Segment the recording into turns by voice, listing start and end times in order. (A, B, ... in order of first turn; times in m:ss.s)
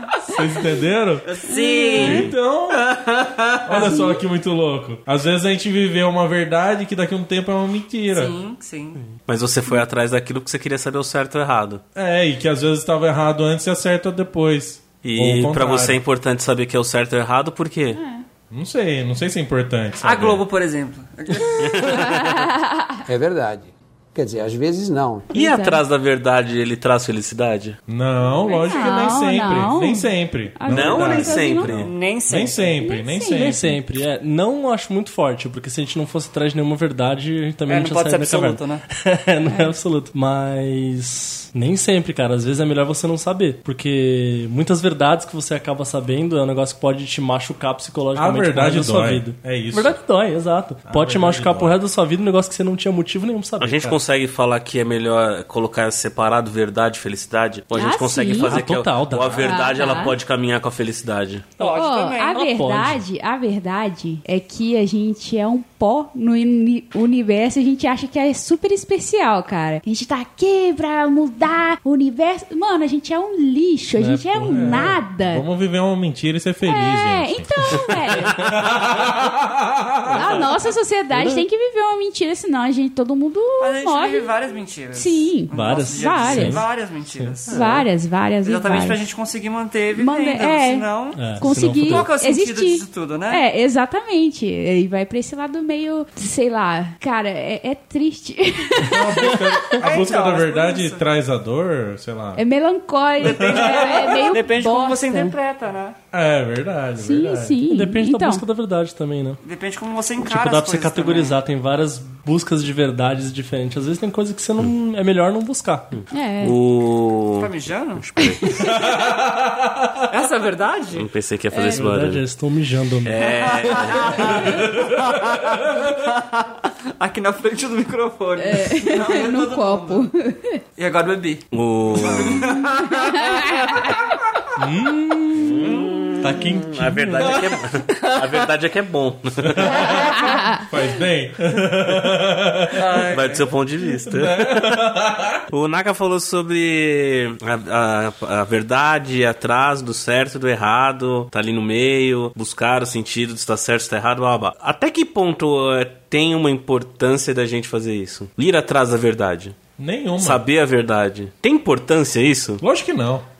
0:00.3-0:01.3 A
0:01.4-0:03.9 B
0:01.5-0:02.2 C
0:01.5-0:02.2 D
0:02.0-0:02.9 A
0:03.6-0:08.4 A
0:03.8-0:04.2 D
0:08.1-0:09.0 C
0:09.3-0:11.8 B
0:11.9-0:16.0 A
0:15.0-0:18.0 B
0:17.9-0:18.2 D
0:18.5-0:20.4 A
0:20.0-0:22.0 C
0:21.6-0:22.3 B
0:22.0-0:23.0 D
0:23.1-0:25.3 E
0:25.3-0:27.8 B
0:25.3-0:25.8 D
0:27.9-0:33.6 A
0:28.3-0:31.8 D
0:30.7-0:31.9 B
0:31.6-0:32.8 C
0:32.8-0:33.8 D
0:33.3-0:54.0 F
0:37.7-0:38.8 C
0:39.4-0:39.8 D
0:48.1-0:50.0 A
0:50.9-0:51.8 A
0:53.6-1:01.5 B
0:57.7-0:58.6 D
0:58.4-0:59.6 F
0:59.3-1:00.2 D
1:01.6-1:02.5 C
1:01.6-1:15.4 D
1:02.3-1:03.0 F
1:14.0-1:15.0 F
1:14.5-1:20.4 A
1:16.6-1:18.5 D
1:20.1-1:26.7 D
1:21.1-1:21.4 F
1:23.6-1:27.8 C
1:25.5-1:27.4 F
1:27.5-1:29.0 D
1:27.5-1:27.8 B
1:28.4-1:33.4 C
1:29.9-1:39.7 D
1:31.2-1:32.1 F
1:38.8-1:42.4 A
1:39.8-1:41.0 C
1:42.4-1:45.4 D
1:43.2-1:46.0 C
1:43.2-1:44.1 A
1:46.1-1:47.6 A
1:47.0-1:48.4 D
1:47.6-1:49.4 F
1:49.4-1:51.4 C
1:50.2-1:56.0 F
1:56.0-1:58.5 B
1:56.1-1:56.6 D
1:57.4-1:58.0 C
1:58.8-2:00.0 A
2:00.1-2:01.1 C
2:00.9-2:02.2 B
2:01.5-2:01.8 D
2:01.7-2:03.4 F
2:03.0-2:04.5 B
2:03.2-2:10.1 C
2:04.5-2:05.4 A
2:08.4-2:10.6 D
2:10.8-2:13.9 C
2:11.5-2:12.5 B
2:12.8-2:14.2 D
2:14.6-2:15.6 F
2:15.3-2:19.9 B
2:15.6-2:16.0 C
2:16.2-2:17.4 F
2:19.4-2:23.1 A
2:20.1-2:20.7 D
2:22.7-2:23.5 C
2:23.1-2:24.8 B
2:24.0-2:25.4 A
2:25.5-2:39.6 B
2:39.8-2:40.4 A
2:40.2-2:42.6 B
2:42.6-2:43.2 A